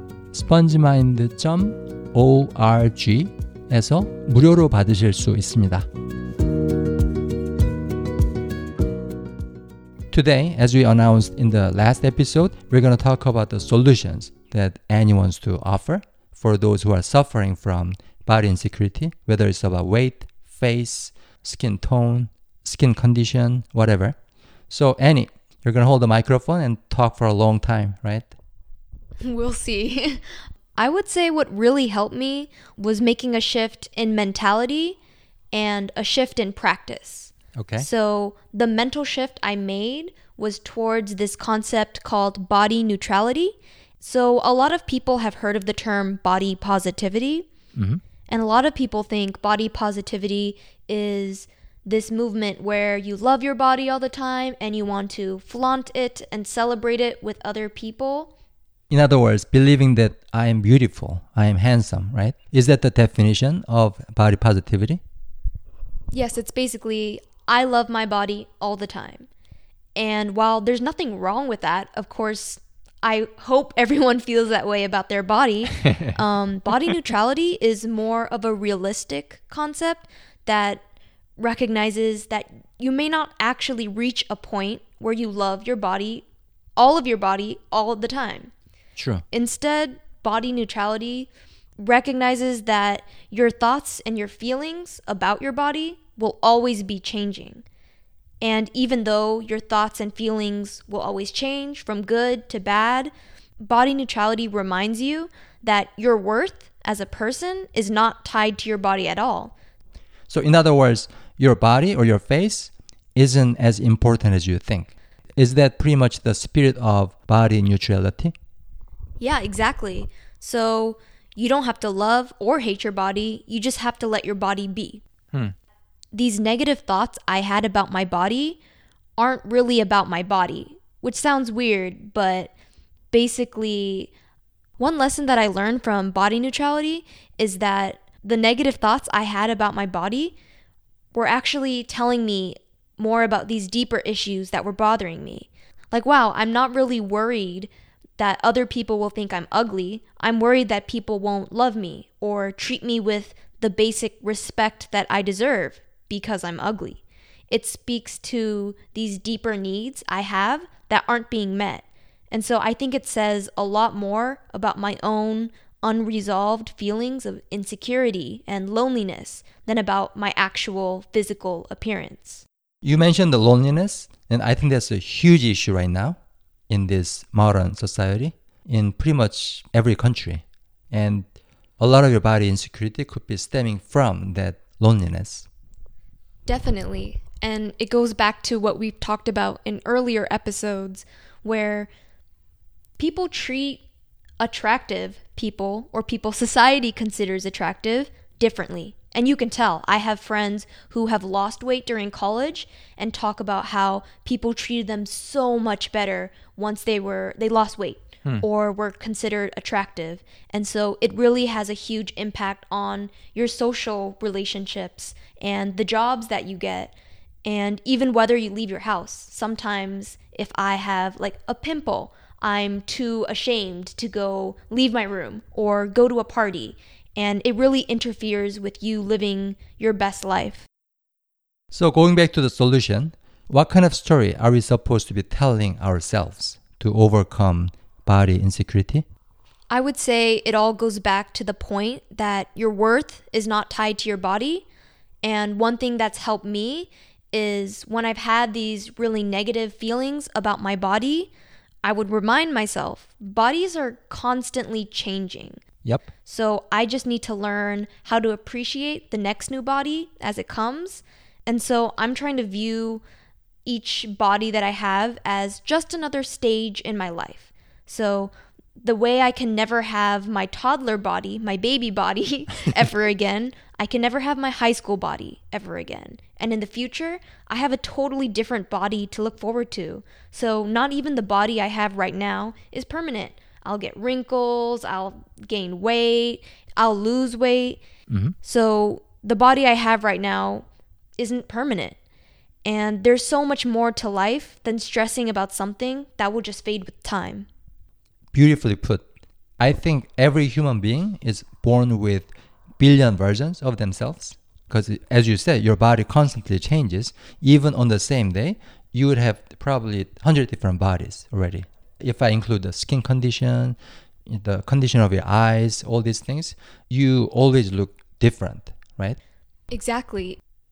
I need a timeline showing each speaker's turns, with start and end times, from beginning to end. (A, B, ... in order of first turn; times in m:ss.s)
0:00.3-0:05.9 A
0:10.1-0:24.2 A
0:24.7-0:28.3 A
0:29.2-0:30.2 B
0:30.8-0:35.0 B
0:35.5-0:47.5 B
0:37.5-0:37.8 A
0:47.8-0:48.0 A
0:48.3-0:58.3 B
0:58.9-1:05.0 A
1:06.1-1:09.3 B
1:10.0-1:20.8 B
1:21.4-1:28.5 B
1:29.0-1:29.2 A
1:29.3-1:37.6 B
1:38.4-1:49.5 B
1:50.3-1:58.3 A
1:59.2-2:05.0 B
2:06.1-2:08.6 B
2:09.2-2:12.5 B
2:13.1-2:14.1 B
2:14.8-2:20.4 B
2:21.1-2:52.4 B
2:52.8-2:56.2 A
2:56.7-3:01.3 A
3:01.8-3:05.5 A
3:06.4-3:11.9 B
3:13.0-3:13.8 B
3:14.4-3:50.6 B
3:51.7-3:59.0 A
3:59.7-4:04.6 B
4:05.2-4:11.3 B
4:11.8-4:15.6 B
4:16.2-4:23.0 B
4:23.6-4:47.8 B
4:48.1-4:48.3 A
4:48.4-4:50.7 B
4:51.2-4:52.0 B
4:52.6-4:57.5 B
4:58.3-4:59.0 A
4:59.6-5:19.2 A
5:19.7-5:20.4 B